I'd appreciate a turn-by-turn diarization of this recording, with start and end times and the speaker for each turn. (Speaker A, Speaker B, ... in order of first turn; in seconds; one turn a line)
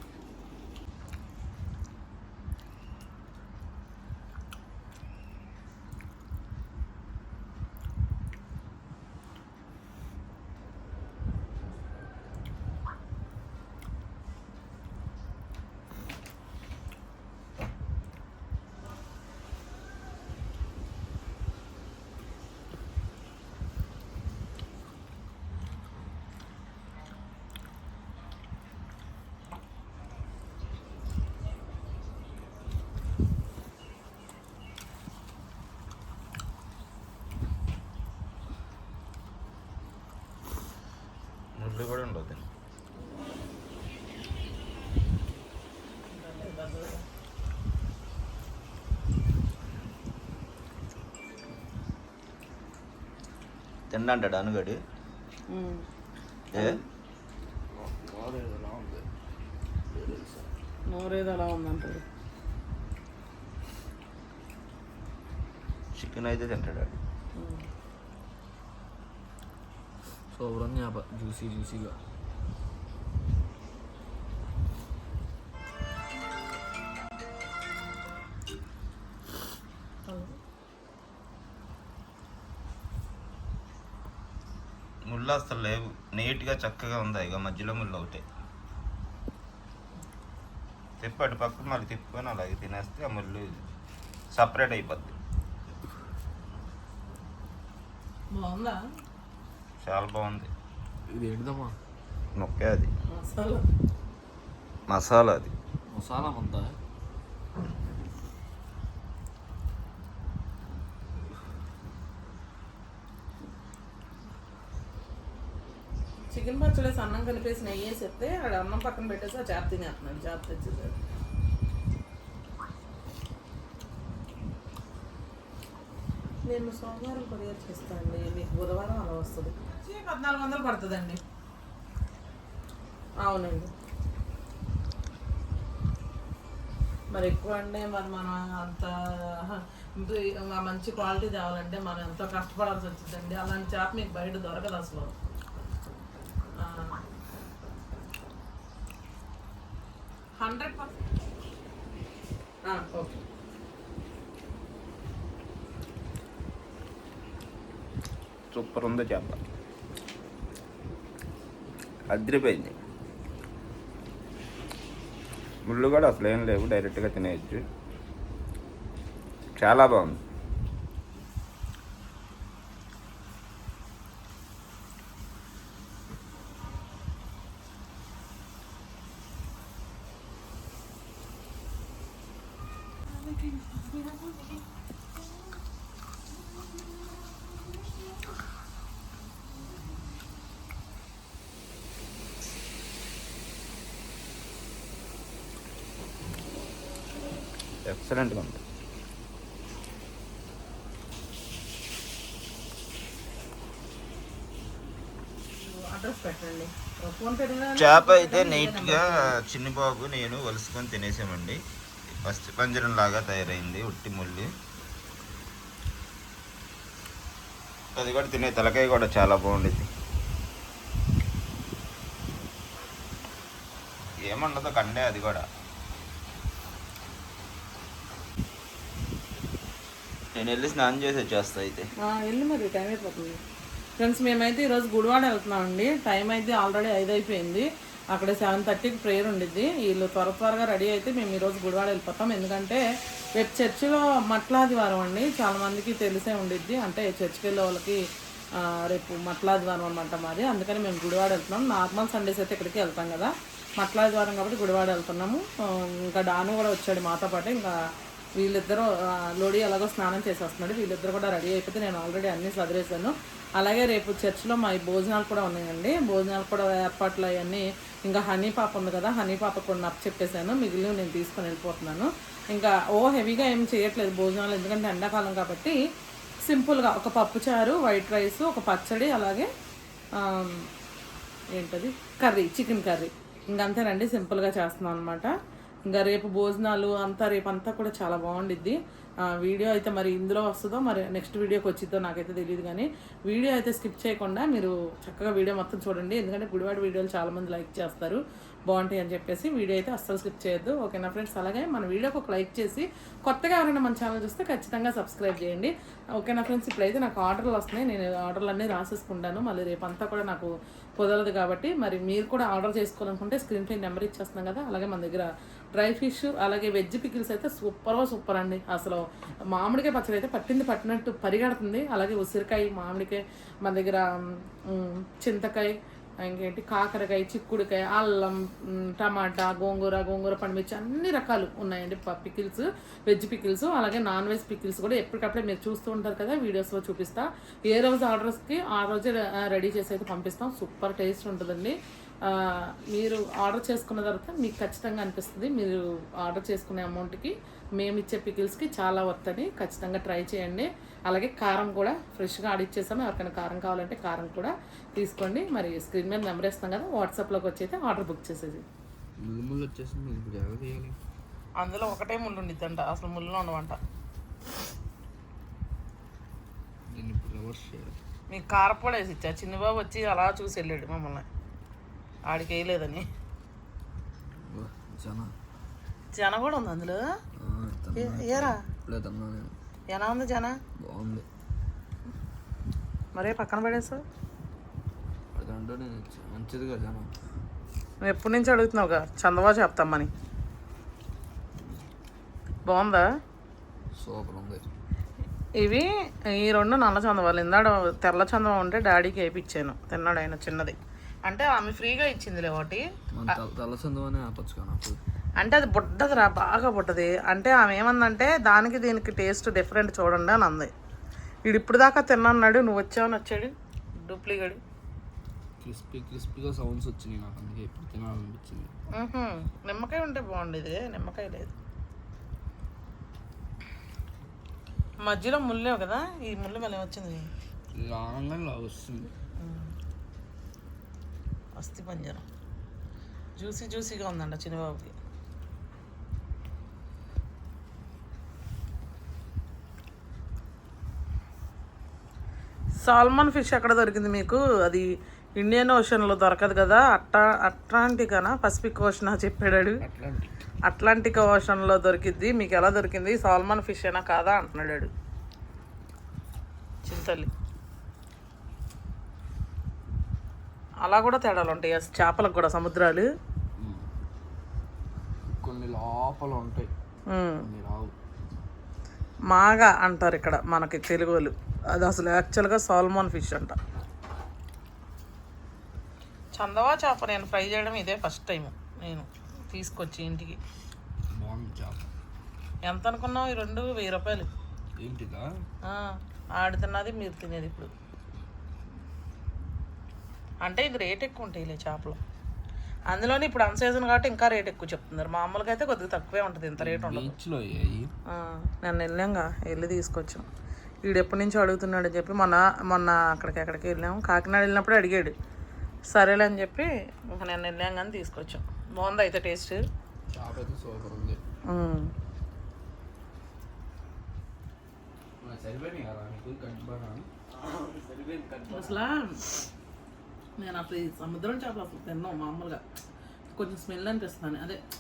Speaker A: 41.6-42.5
Speaker B: 46.1-47.0
Speaker A: 53.9-54.8
Speaker B: 55.5-55.9
Speaker A: 56.5-56.8
Speaker B: 56.5-56.8
Speaker C: 57.7-59.1
Speaker C: 59.9-60.5
Speaker B: 60.9-62.0
Speaker A: 66.0-67.0
Speaker B: 67.3-67.7
Speaker C: 70.3-72.0
Speaker B: 80.1-80.4
Speaker A: 85.1-88.2
Speaker A: 91.0-93.6
Speaker A: 94.3-95.2
Speaker B: 98.3-98.8
Speaker A: 99.8-100.5
Speaker C: 101.1-101.8
Speaker A: 102.4-102.9
Speaker B: 103.1-103.6
Speaker A: 104.9-105.5
Speaker C: 105.9-106.8
Speaker B: 116.3-121.0
Speaker B: 126.5-131.2
Speaker B: 133.2-133.7
Speaker B: 137.1-145.1
Speaker B: 146.6-147.0
Speaker B: 150.4-150.9
Speaker B: 152.7-153.2
Speaker A: 158.5-159.4
Speaker A: 162.1-162.8
Speaker A: 165.7-167.7
Speaker A: 169.6-170.2
Speaker B: 183.1-184.6
Speaker A: 197.8-198.6
Speaker B: 205.6-209.3
Speaker A: 207.8-211.6
Speaker A: 212.1-214.5
Speaker A: 217.9-219.9
Speaker A: 224.3-225.5
Speaker A: 230.3-231.9
Speaker B: 232.0-233.4
Speaker B: 234.0-242.8
Speaker B: 243.4-248.0
Speaker B: 248.6-257.7
Speaker B: 258.4-275.8
Speaker B: 276.4-279.5
Speaker B: 280.2-280.7
Speaker B: 281.6-285.3
Speaker B: 285.9-288.8
Speaker B: 289.3-358.6
Speaker C: 359.2-361.0
Speaker B: 361.6-363.8
Speaker C: 366.9-368.0
Speaker B: 368.3-371.3
Speaker B: 372.3-373.1
Speaker C: 374.4-375.4
Speaker B: 376.1-377.0
Speaker C: 377.4-379.6
Speaker B: 377.9-378.6
Speaker B: 379.9-380.6
Speaker C: 380.8-381.3
Speaker B: 383.1-384.0
Speaker C: 385.3-387.1
Speaker B: 388.0-390.1
Speaker C: 391.6-391.8
Speaker B: 392.6-393.1
Speaker C: 393.9-394.7
Speaker B: 395.6-403.4
Speaker C: 403.1-405.0
Speaker B: 405.4-410.7
Speaker B: 411.5-413.5
Speaker B: 414.1-414.6
Speaker C: 415.6-418.7
Speaker B: 419.0-421.5
Speaker B: 425.0-427.3
Speaker C: 427.8-429.1
Speaker B: 429.4-429.7
Speaker B: 431.6-432.2
Speaker B: 433.4-434.9
Speaker B: 442.8-444.9
Speaker B: 445.4-449.8
Speaker C: 449.8-450.4
Speaker B: 450.6-454.9
Speaker B: 456.8-457.3
Speaker B: 460.8-463.1
Speaker C: 463.6-463.9
Speaker C: 465.4-466.7
Speaker B: 467.1-467.5
Speaker C: 467.4-467.9
Speaker B: 469.3-473.6
Speaker B: 476.4-480.4
Speaker C: 481.1-481.9
Speaker B: 482.6-484.3
Speaker C: 484.8-485.3
Speaker B: 485.6-487.7
Speaker B: 490.4-492.0
Speaker B: 492.9-497.2
Speaker C: 496.6-497.9
Speaker B: 498.1-500.3
Speaker B: 500.9-505.1
Speaker B: 505.9-509.6
Speaker C: 510.1-511.2
Speaker B: 511.5-511.9
Speaker C: 515.2-518.8
Speaker B: 518.5-519.2
Speaker B: 520.4-522.6
Speaker B: 523.4-524.6